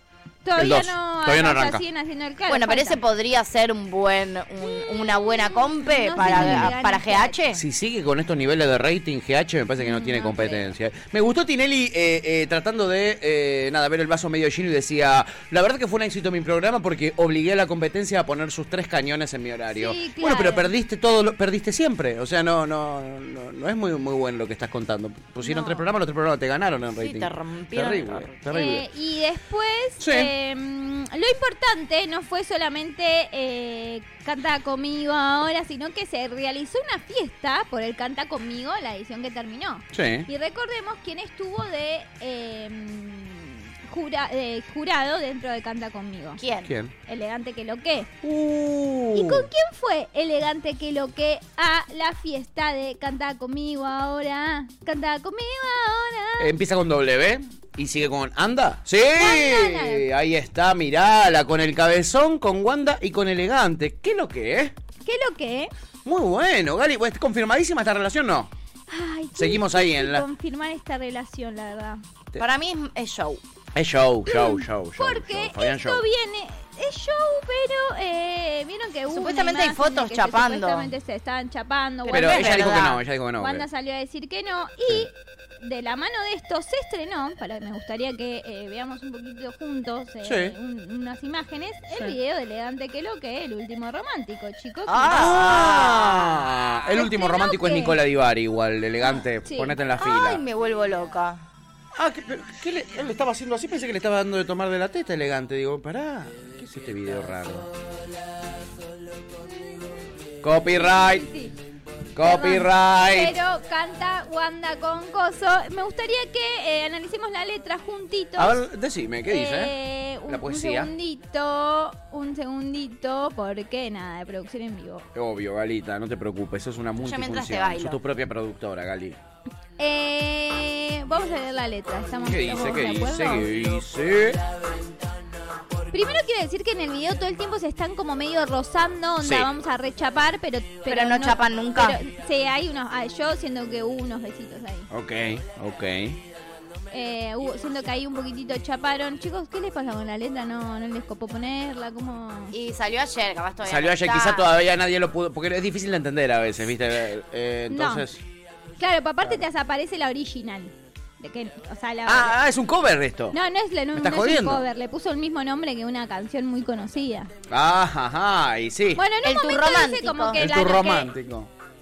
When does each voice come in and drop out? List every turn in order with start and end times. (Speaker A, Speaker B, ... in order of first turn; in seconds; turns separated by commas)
Speaker A: 0.4-3.0, Speaker B: 0.6-1.8, Speaker C: 2.5-7.6, Speaker A: 4.6-7.3, Speaker B: 6.2-6.7, Speaker B: 7.5-28.8, Speaker A: 9.8-10.7, Speaker A: 19.7-20.7, Speaker A: 25.4-25.8, Speaker C: 27.0-28.4, Speaker A: 28.5-46.4, Speaker B: 30.0-30.3, Speaker B: 39.9-40.3, Speaker C: 46.4-46.7, Speaker B: 46.6-46.9, Speaker A: 47.1-48.1, Speaker B: 48.2-49.5, Speaker A: 49.1-56.5, Speaker B: 56.4-64.7, Speaker A: 59.1-60.1, Speaker A: 65.0-65.7, Speaker B: 66.0-68.5, Speaker A: 68.9-72.0, Speaker B: 69.3-70.2, Speaker C: 72.4-73.4, Speaker B: 73.7-76.0, Speaker A: 74.3-95.5, Speaker C: 79.1-80.9, Speaker C: 82.0-83.0, Speaker B: 82.1-83.6, Speaker B: 90.2-90.5, Speaker C: 94.9-96.5, Speaker B: 95.1-100.4, Speaker A: 96.9-98.0, Speaker A: 99.1-99.8, Speaker C: 100.0-101.4, Speaker B: 101.9-107.7, Speaker B: 110.4-111.3, Speaker A: 110.8-111.5, Speaker B: 112.1-113.4, Speaker A: 112.2-118.6, Speaker B: 118.4-119.7, Speaker A: 119.3-125.0, Speaker B: 120.3-120.9, Speaker B: 125.1-129.2, Speaker C: 127.0-128.0, Speaker A: 129.8-133.5, Speaker B: 132.2-134.4, Speaker A: 135.9-144.9, Speaker B: 139.2-139.5, Speaker C: 140.9-142.0, Speaker B: 144.9-146.2, Speaker A: 146.9-152.5, Speaker C: 152.5-154.5, Speaker B: 153.6-158.2, Speaker A: 157.7-158.1, Speaker A: 158.8-162.3, Speaker B: 162.1-163.3, Speaker A: 163.3-167.3, Speaker B: 163.9-164.6, Speaker B: 167.5-169.0, Speaker A: 168.9-171.1, Speaker C: 169.2-170.5, Speaker B: 170.4-171.5